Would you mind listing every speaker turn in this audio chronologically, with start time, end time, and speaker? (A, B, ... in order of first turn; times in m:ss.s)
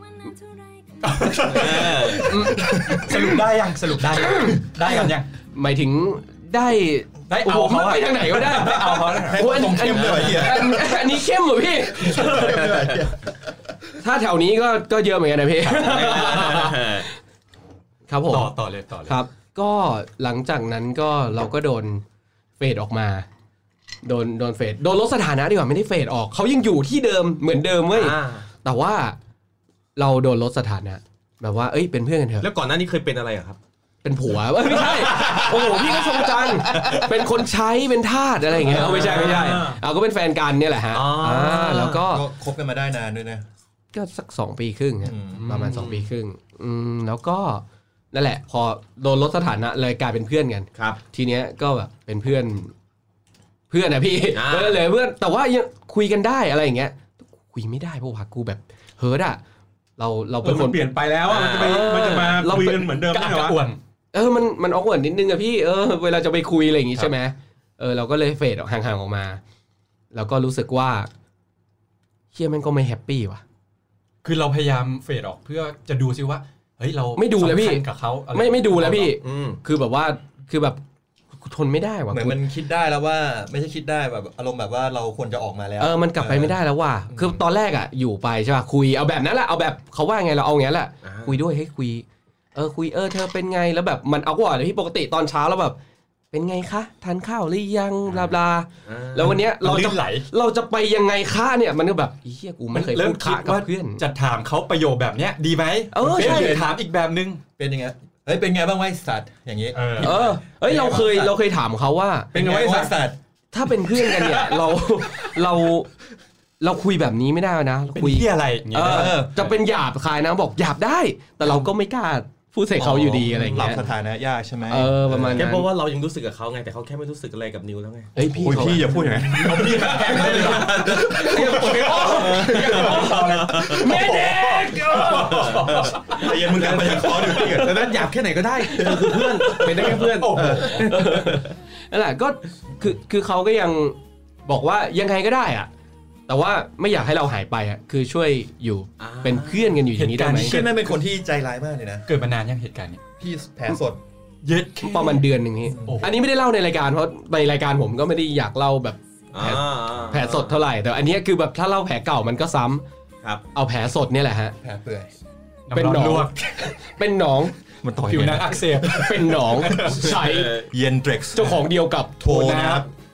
0:01.0-0:05.3 A
0:01.5-0:02.4 B
0:02.1-0:03.4 C
0:02.6-0:03.1 D
0:04.1-0:12.7 C
0:07.3-0:09.6 A
0:09.1-0:10.9 D
0:10.0-0:10.5 B
0:12.0-0:13.3 D
0:12.5-0:13.0 B
0:14.0-0:17.0 C
0:15.7-0:16.3 A
0:15.9-0:17.1 B
0:18.1-0:18.5 C
0:18.3-0:19.2 A
0:19.1-0:22.0 C
0:22.6-0:23.3 C
0:24.0-0:29.2 C
0:27.9-0:28.5 B
0:30.0-0:32.5 C
0:32.4-0:33.6 B
0:34.0-0:42.3 C
0:34.8-0:37.0 B
0:38.6-0:39.8 B
0:38.9-0:39.6 E
0:40.9-0:42.0 B
0:42.0-0:43.4 D
0:43.9-0:52.7 C
0:45.0-0:45.5 D
0:45.7-0:46.1 B
0:53.7-0:59.4 C
0:54.3-0:54.8 B
1:00.0-1:02.9 C
1:00.4-1:03.6 E
1:01.3-1:02.2 B
1:03.0-1:03.8 A
1:04.1-1:09.4 C
1:10.1-1:11.1 C
1:12.3-1:13.4 C
1:14.2-1:19.2 A
1:17.2-1:20.8 C
1:19.2-1:19.6 B
1:21.3-1:22.4 C
1:22.1-1:26.6 D
1:25.8-1:35.8 C
1:27.1-1:27.4 D
1:31.0-1:31.4 B
1:36.3-1:44.0 C
1:38.9-1:39.4 B
1:39.3-1:40.3 A
1:42.7-1:47.4 A
1:45.9-1:46.7 C
1:46.1-1:46.7 D
1:47.6-1:51.4 D
1:49.7-1:50.4 A
1:50.0-1:52.3 C
1:52.3-1:53.0 E
1:52.3-1:53.2 D
1:53.5-1:55.9 C
1:56.6-2:03.9 C
1:58.0-1:59.6 A
1:58.8-1:59.4 D
2:02.8-2:05.5 D
2:04.7-2:05.7 C
2:05.4-2:08.2 B
2:08.2-2:09.2 C
2:08.2-2:14.1 D
2:09.2-2:17.7 A
2:09.6-2:13.8 B
2:11.3-2:13.1 E
2:11.4-2:12.4 C
2:13.7-2:15.6 C
2:15.2-2:21.3 B
2:15.7-2:18.0 D
2:18.7-2:21.1 D
2:19.5-2:21.0 A
2:20.6-2:25.7 C
2:26.3-2:30.6 C
2:29.0-2:29.8 B
2:30.0-2:30.8 A
2:30.4-2:32.1 D
2:32.1-2:33.0 A
2:33.2-2:34.0 D
2:34.4-2:36.2 A
2:34.8-2:42.8 C
2:39.3-2:40.6 B
2:43.6-2:44.6 C
2:44.6-2:45.1 D
2:45.7-2:46.7 A
2:45.7-2:47.5 C
2:47.8-2:49.2 D
2:48.1-2:50.1 A
2:48.8-2:50.6 C
2:50.1-2:50.7 B
2:50.7-2:51.6 D
2:51.3-2:52.8 C
2:52.2-2:52.9 D